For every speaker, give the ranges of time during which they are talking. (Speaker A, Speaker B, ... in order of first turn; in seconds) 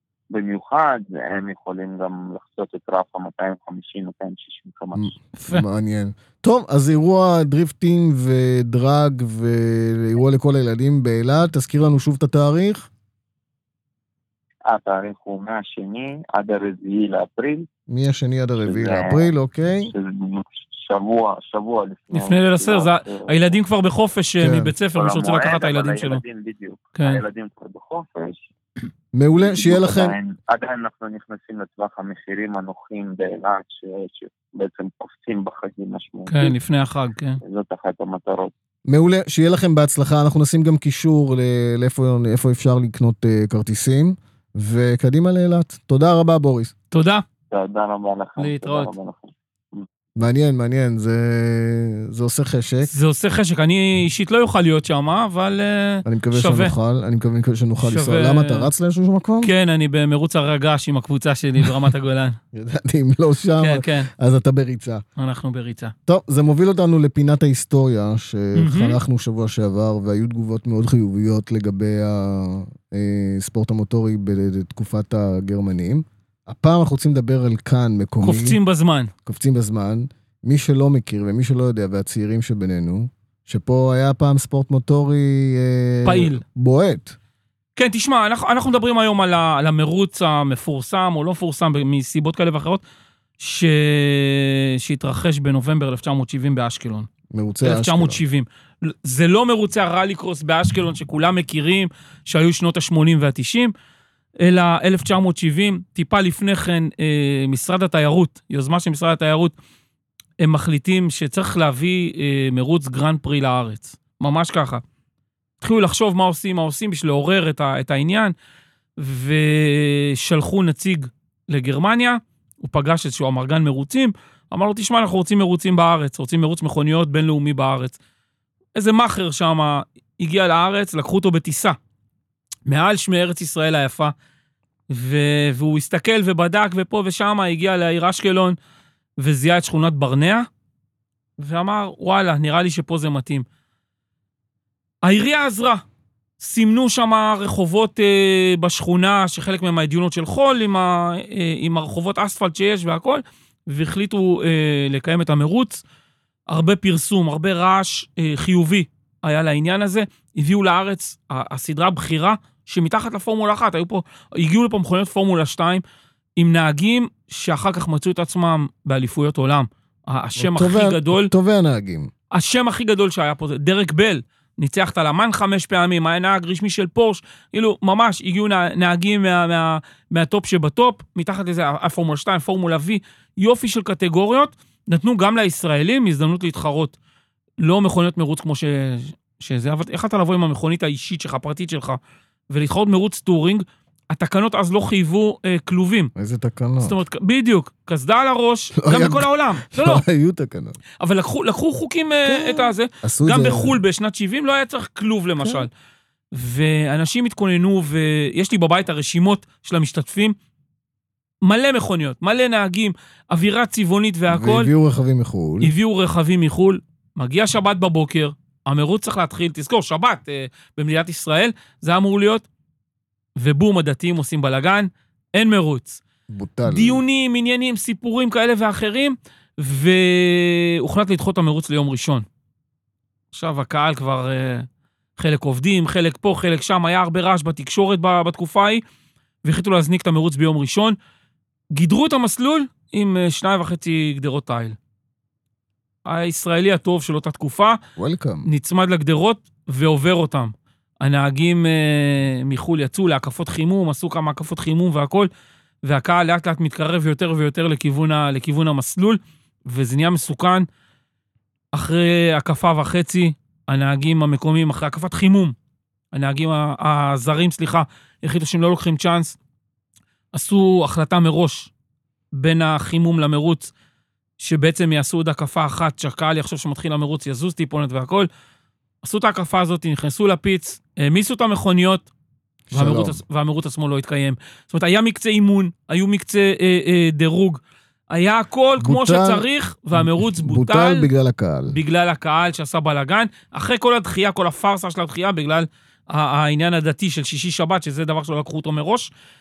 Speaker A: 0.3-5.1, 14.7-17.7, 18.6-19.3, 19.8-23.6, 24.9-28.5, 29.4-36.5, 37.4-38.5, 47.5-49.9
Speaker B: 5.0-12.9, 17.9-19.9, 24.4-24.7, 29.1-30.1, 38.9-46.7, 50.2-52.9, 56.0-59.5, 62.5-65.0, 66.1-78.6, 79.3-87.2, 97.3-98.2, 170.4-172.1, 196.2-196.9, 198.8-200.8, 202.2-203.8, 205.4-205.7, 214.3-215.7, 226.3-227.0, 248.0-248.5, 282.7-283.2, 288.8-291.8
Speaker C: 5.4-5.7, 22.1-26.2, 27.0-27.2, 36.3-37.4, 46.9-47.2, 48.4-48.9, 52.9-56.7, 57.8-58.7, 59.4-62.4, 63.6-64.1, 65.2-65.9, 68.5-69.0, 78.2-79.1, 86.0-86.4, 87.8-92.8, 93.4-97.1, 97.6-103.7, 104.4-109.5, 110.4-114.8, 115.6-118.3, 119.0-128.0, 128.8-131.8, 132.7-134.1, 134.9-138.6, 139.2-140.5, 141.4-143.4, 145.0-145.8, 146.4-155.8, 156.5-165.8, 166.4-171.3, 172.3-186.9, 187.6-192.0, 192.5-196.1, 196.8-200.0, 201.0-205.7, 206.3-210.3, 211.4-214.7, 215.6-222.4, 223.4-226.0, 226.7-232.2, 233.3-234.7, 235.2-238.8, 239.4-241.0, 241.7-244.8, 246.1-247.8, 248.5-255.3, 255.8-260.7, 261.7-265.6, 266.1-269.4, 270.3-271.7, 272.3-273.7, 274.4-278.3, 279.0-282.1, 282.7-291.1, 291.7-299.1